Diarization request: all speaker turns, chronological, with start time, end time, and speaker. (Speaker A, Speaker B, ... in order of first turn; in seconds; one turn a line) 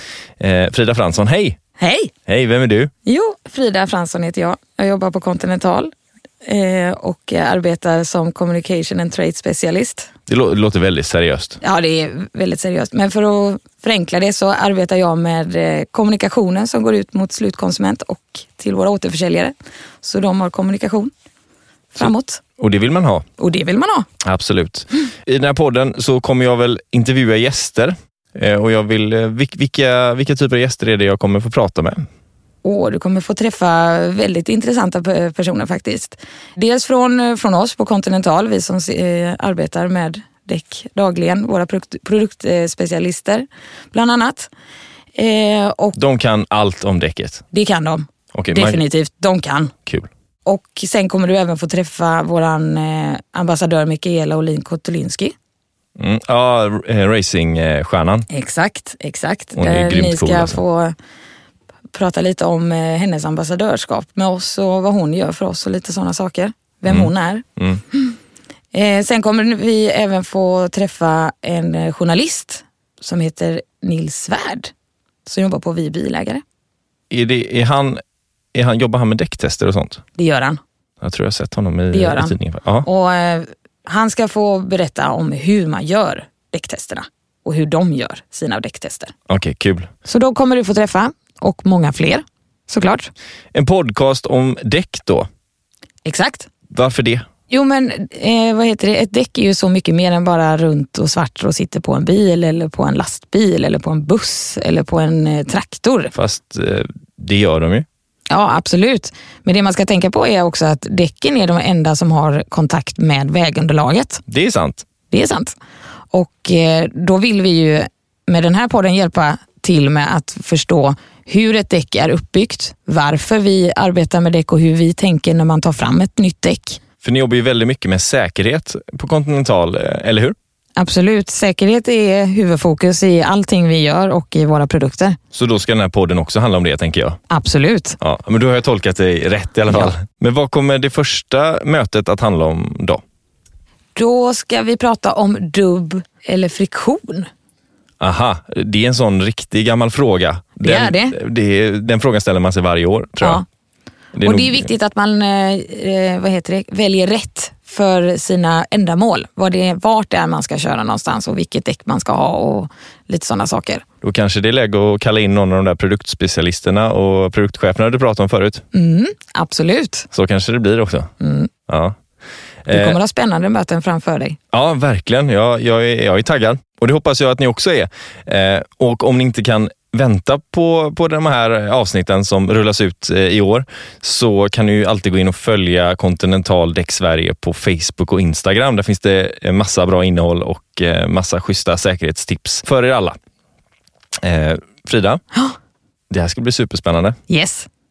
Speaker A: 0.4-1.6
Speaker B: 1.8-2.1
Speaker A: 2.3-2.9
Speaker B: 3.0-5.9
Speaker B: 6.4-10.1
Speaker A: 10.3-11.6
Speaker B: 11.6-21.1
Speaker B: 21.9-22.4
Speaker A: 22.6-23.2
Speaker B: 23.4-24.1
Speaker A: 24.2-32.0
Speaker B: 32.6-44.5
Speaker B: 45.1-46.0
Speaker A: 46.0-47.4
Speaker B: 47.5-49.7
Speaker A: 48.3-48.8
Speaker B: 50.4-55.3
Speaker A: 56.0-58.3
Speaker B: 58.3-60.9
Speaker A: 59.5-60.6
Speaker B: 61.9-68.2
Speaker A: 66.9-67.8
Speaker B: 68.7-74.7
Speaker B: 75.2-76.4
Speaker A: 77.1-78.0
Speaker A: 78.5-80.0
Speaker B: 80.2-80.6
Speaker A: 81.0-82.8
Speaker B: 81.9-89.1
Speaker A: 89.3-89.9
Speaker B: 90.0-93.1
Speaker A: 93.5-95.3
Speaker B: 96.0-96.5
Speaker A: 96.7-97.2
Speaker B: 97.5-106.1
Speaker A: 106.1-107.8
Speaker B: 108.3-114.2
Speaker A: 114.3-114.8
Speaker B: 115.1-115.5
Speaker B: 116.1-126.8
Speaker A: 127.0-130.3
Speaker B: 130.8-135.2
Speaker A: 135.3-137.2
Speaker B: 137.3-138.0
Speaker A: 138.0-143.0
Speaker B: 139.7-139.9
Speaker B: 143.9-147.3
Speaker A: 148.0-153.4
Speaker B: 150.6-151.2
Speaker A: 154.1-154.7
Speaker B: 154.2-163.8
Speaker A: 164.0-168.6
Speaker B: 168.7-170.1
Speaker A: 170.1-171.1
Speaker B: 171.2-171.5
Speaker A: 171.7-171.9
Speaker A: 172.7-173.0
Speaker B: 172.7-174.4
Speaker A: 174.5-193.2
Speaker A: 194.2-195.2
Speaker A: 196.1-197.2
Speaker B: 197.3-197.7